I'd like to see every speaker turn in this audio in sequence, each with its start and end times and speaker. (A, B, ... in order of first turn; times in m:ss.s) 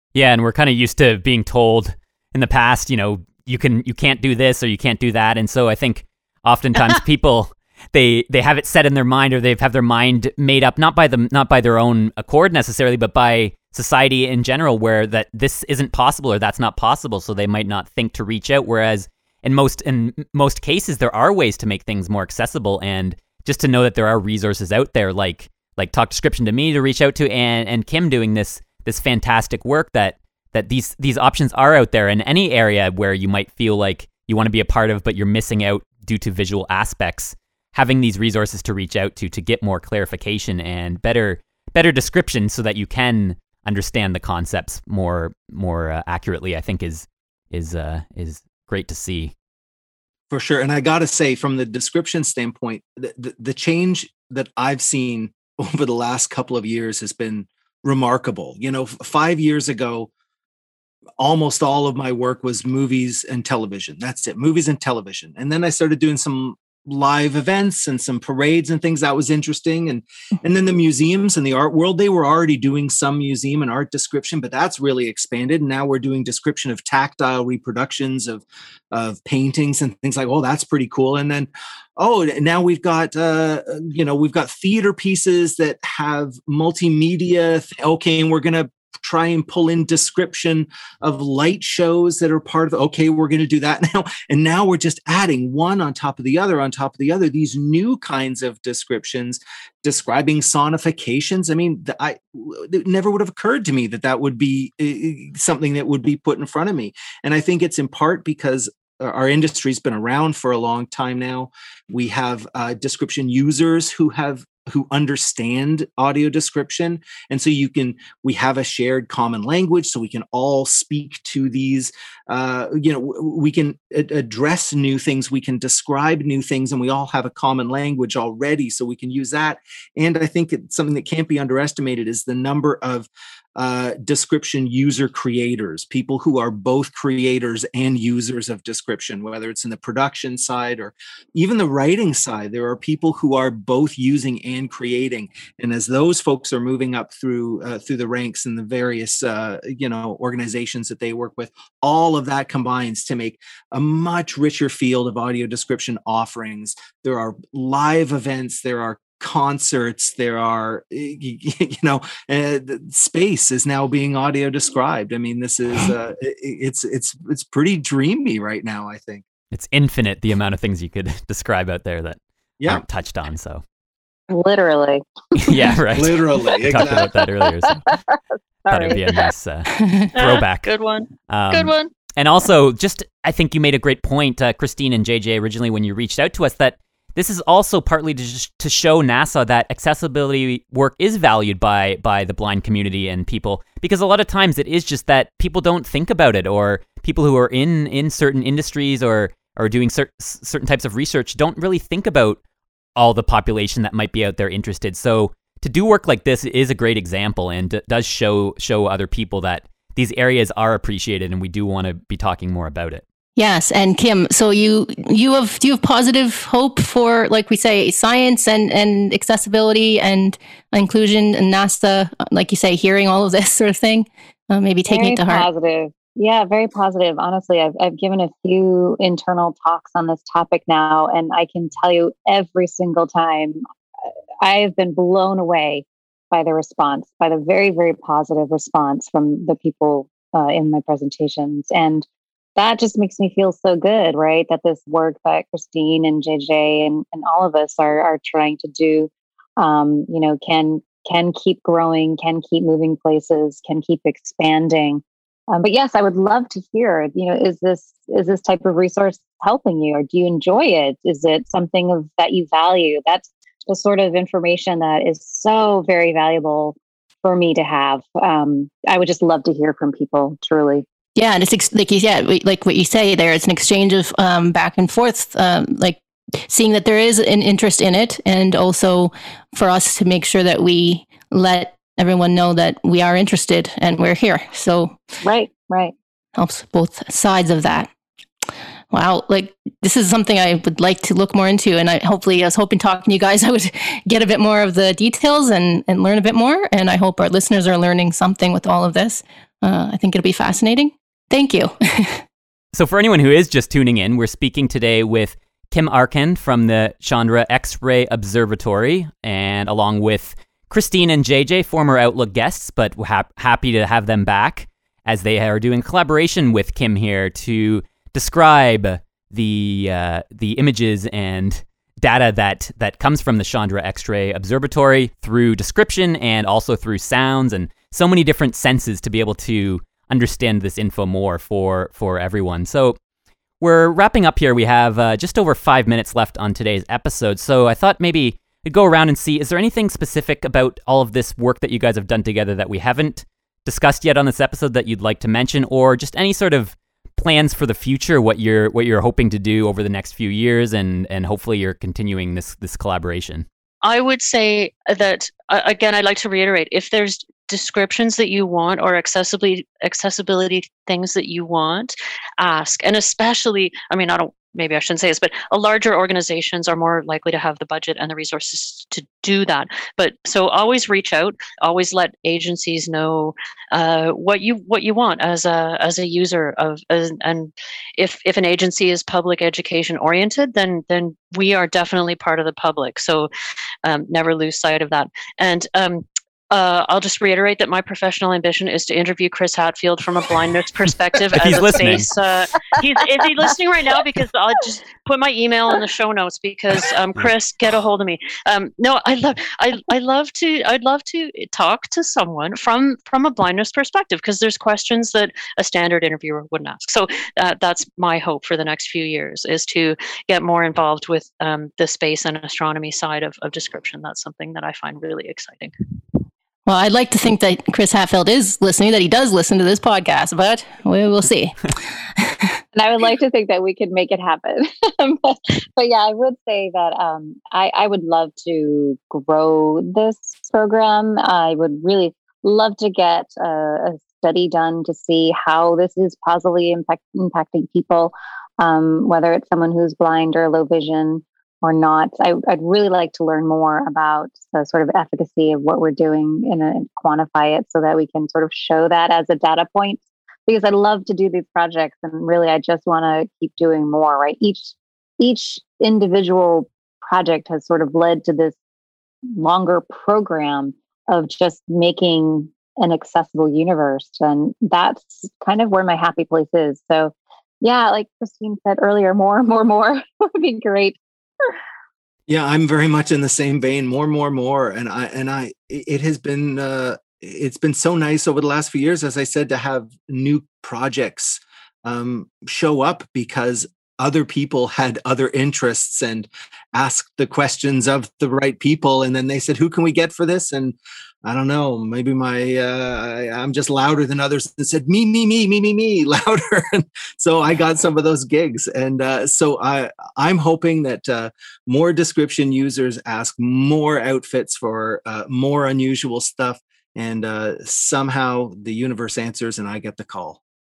0:00.2-0:49.3 A
0:50.3-1:00.1 B
1:01.2-2:49.2 B
2:49.5-2:53.6 A
2:54.3-2:55.7 C
2:55.4-2:57.8 A
2:55.9-2:57.1 B
2:57.6-2:59.2 C
2:58.7-3:00.7 A
2:59.8-3:00.0 D
3:00.2-3:01.9 E
3:01.3-3:22.4 A
3:23.0-3:33.0 A
3:33.4-3:45.5 D
3:44.9-3:53.6 C
3:54.4-4:30.8 C
4:31.2-4:45.0 D
4:45.2-4:45.9 C
4:46.4-4:47.9 D
4:48.9-5:02.2 D
5:02.7-5:33.0 A
5:33.6-5:53.5 A
5:53.8-6:23.3 E
6:23.8-6:55.7 E
6:31.3-6:32.1 A
6:56.7-7:02.6 D
7:02.7-7:38.6 C
7:39.3-7:51.0 C
7:52.3-8:30.4 B